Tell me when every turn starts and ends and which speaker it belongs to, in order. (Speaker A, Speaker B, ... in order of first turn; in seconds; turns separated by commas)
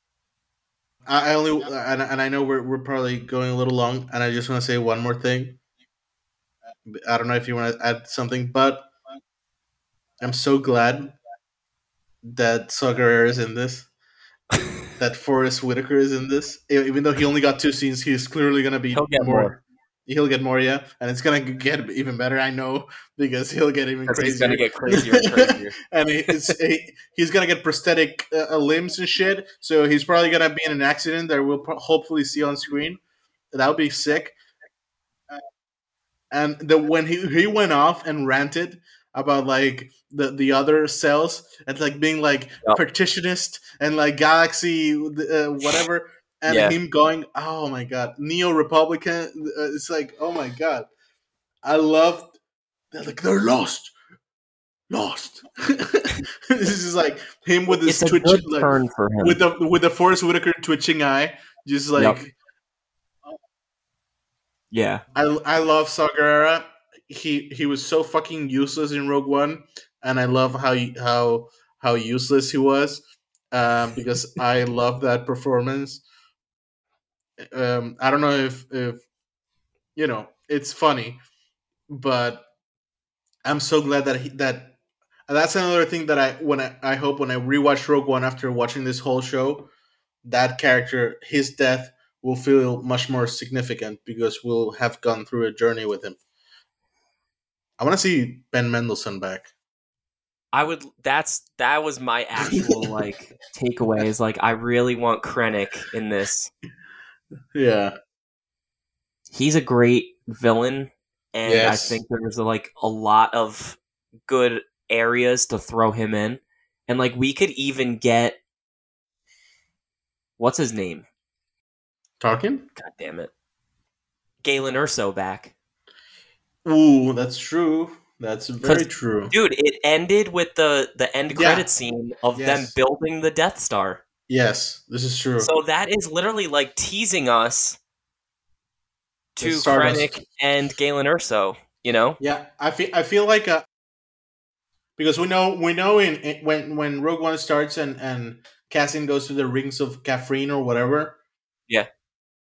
Speaker A: 1.1-5.6, Speaker A: 6.9-8.9, Speaker A: 10.2-11.2, Speaker A: 12.3-13.9, Speaker A: 15.0-33.0, Speaker B: 18.9-19.6, Speaker B: 24.1-25.8, Speaker A: 33.5-34.4, Speaker A: 36.3-50.9, Speaker B: 46.5-46.8, Speaker A: 51.6-52.4, Speaker A: 52.9-53.9, Speaker A: 54.9-62.4, Speaker B: 57.8-59.4, Speaker B: 62.0-62.2, Speaker B: 64.7-65.0, Speaker A: 65.1-76.0, Speaker A: 77.5-79.0, Speaker A: 80.0-81.2, Speaker A: 81.9-82.5, Speaker A: 83.5-84.8, Speaker A: 85.3-89.7, Speaker A: 90.2-96.2, Speaker A: 97.8-99.5, Speaker B: 100.5-106.5, Speaker A: 107.5-107.9, Speaker B: 109.3-118.4, Speaker A: 111.5-112.0, Speaker B: 120.4-121.1, Speaker A: 122.2-122.7, Speaker B: 122.8-123.3, Speaker B: 124.4-125.5, Speaker A: 126.7-129.3, Speaker B: 128.6-134.0, Speaker A: 131.3-131.7, Speaker A: 132.3-132.7, Speaker A: 134.3-135.5, Speaker B: 135.4-137.8, Speaker B: 139.4-142.2, Speaker A: 139.4-140.2, Speaker A: 142.2-143.7, Speaker A: 145.0-151.2